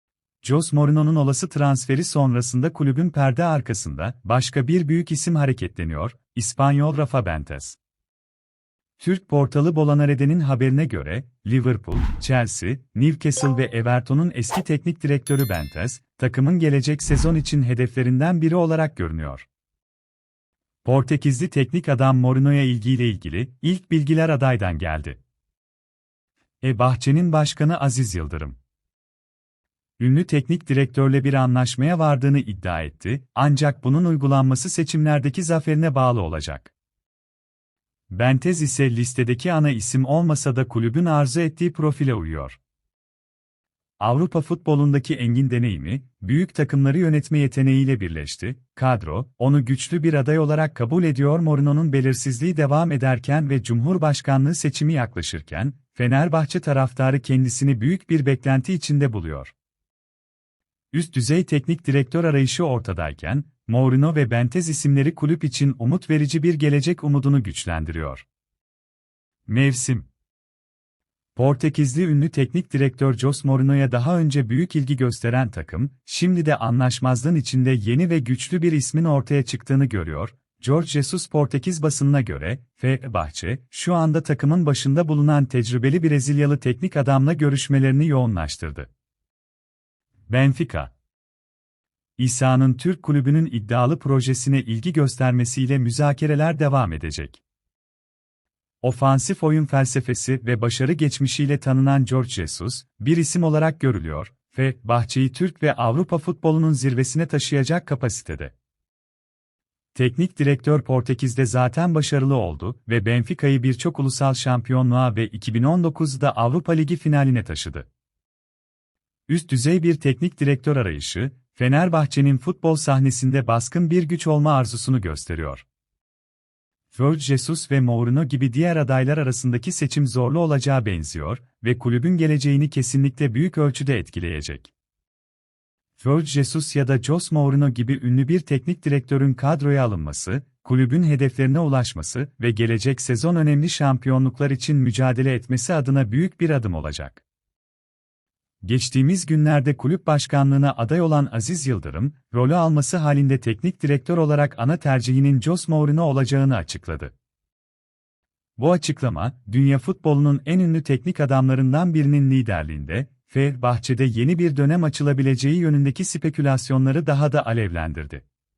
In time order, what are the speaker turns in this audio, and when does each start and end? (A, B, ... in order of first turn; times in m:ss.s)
0:00.4-0:07.8 A
0:09.0-0:19.5 A
0:20.8-0:25.2 A
0:26.6-0:28.6 A
0:30.0-0:36.7 A
0:38.1-0:42.6 A
0:44.0-0:59.5 A
1:00.9-1:08.2 A
1:09.5-1:10.1 A
1:11.4-1:28.9 A
1:30.3-1:30.9 A
1:32.2-1:37.4 A
1:38.8-1:48.5 A
1:49.9-1:57.9 A
1:59.3-2:05.6 A
2:06.9-2:14.7 A
2:16.0-2:27.2 A
2:28.6-2:37.1 A
2:38.6-2:48.2 A